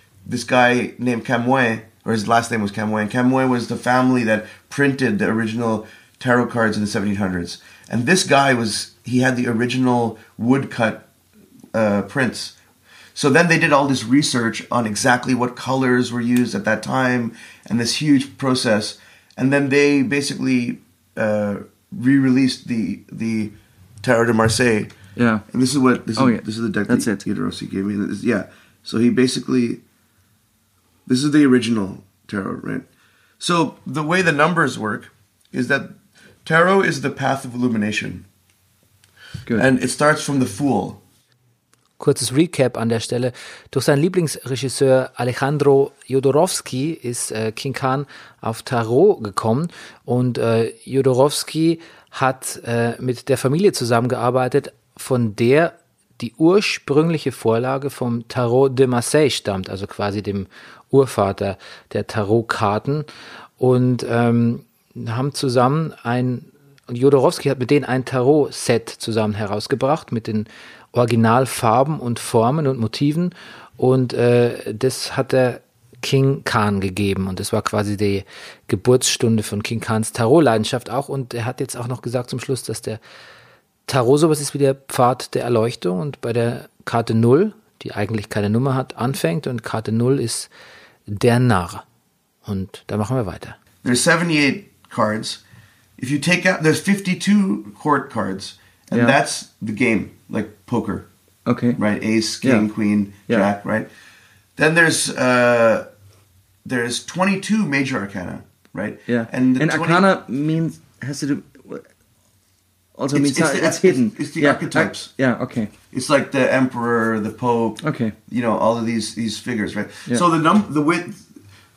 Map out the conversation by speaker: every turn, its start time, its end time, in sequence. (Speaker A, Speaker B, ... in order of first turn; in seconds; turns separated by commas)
Speaker A: 0.2-11.1, Speaker A: 11.7-12.5, Speaker A: 13.1-24.9, Speaker B: 25.1-25.4, Speaker A: 25.5-29.8, Speaker B: 26.1-27.2, Speaker A: 31.1-32.9, Speaker A: 33.4-38.2, Speaker A: 39.5-41.0, Speaker C: 42.0-63.1, Speaker C: 63.6-83.0, Speaker C: 83.9-90.5, Speaker C: 91.1-91.8, Speaker C: 92.5-93.5, Speaker A: 93.8-95.4, Speaker A: 96.0-101.1, Speaker B: 101.5-101.8, Speaker A: 101.8-103.9, Speaker A: 104.6-105.9, Speaker A: 106.6-110.0, Speaker B: 109.1-111.8, Speaker B: 113.0-115.7, Speaker A: 113.1-115.1, Speaker A: 115.9-121.2, Speaker B: 117.8-118.1